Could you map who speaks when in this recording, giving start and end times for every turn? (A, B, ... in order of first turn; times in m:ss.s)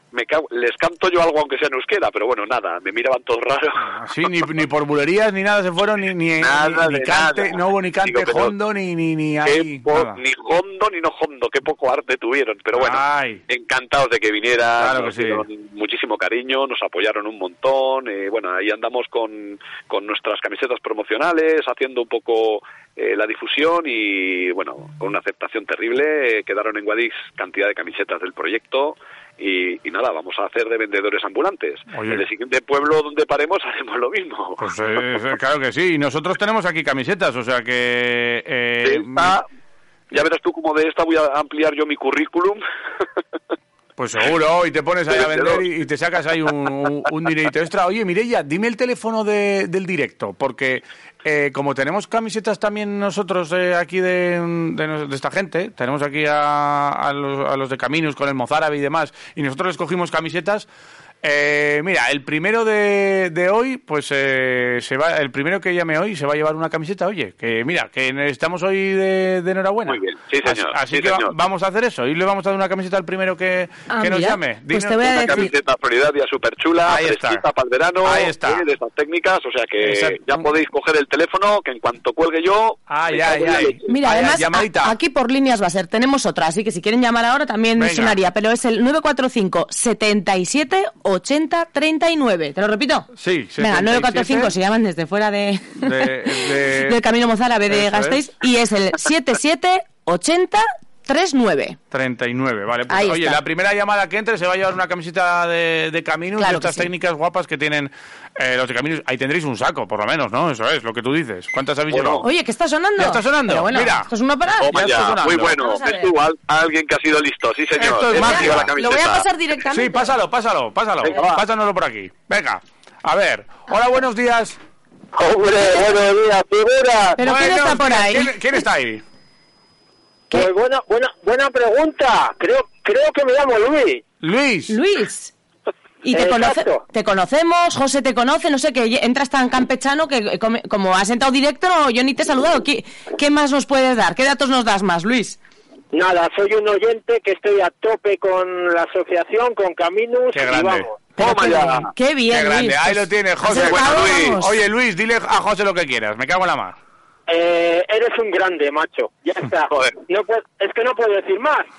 0:00.1-0:03.9 A
0:03.8-0:10.2 B
0:06.4-0:08.5 A
0:09.4-0:34.6 A
0:12.7-0:13.4 B
0:14.8-0:15.4 B
0:31.9-0:32.2 B
0:34.6-0:39.4 B
0:38.8-0:39.4 A
0:40.1-0:42.6 A
0:44.0-1:00.7 B
0:45.1-0:45.6 A
1:01.2-1:15.5 B
1:09.8-1:11.3 A
1:13.9-1:15.5 C
1:15.0-1:23.9 A
1:16.8-1:17.4 B
1:18.0-1:18.6 B
1:19.8-1:20.2 B
1:22.9-1:24.9 B
1:23.8-1:41.8 C
1:27.8-1:28.2 B
1:33.2-1:34.5 B
1:35.8-1:37.0 B
1:37.7-1:38.2 B
1:41.9-1:52.3 B
1:42.9-1:43.4 C
1:46.4-1:46.9 C
1:51.9-1:52.2 A
1:52.2-1:56.1 C
1:53.0-1:54.1 B
1:54.6-1:59.2 A
1:54.7-1:55.6 B
1:57.8-1:58.7 B
1:58.1-2:00.2 C
1:59.7-2:04.6 B
2:01.0-2:01.4 A
2:05.2-2:07.2 D
2:05.8-2:06.2 A
2:07.2-2:08.5 C
2:07.2-2:09.0 B
2:10.3-2:14.0 D
2:14.2-2:14.8 B
2:14.7-2:15.3 C
2:16.0-2:25.4 C
2:16.1-2:16.8 D
2:25.9-2:31.0 D
2:30.3-2:31.2 B
2:31.2-2:34.6 C
2:31.2-2:31.9 A
2:32.3-2:36.8 B
2:33.7-2:34.3 A
2:37.3-2:41.7 D
2:39.7-2:40.0 A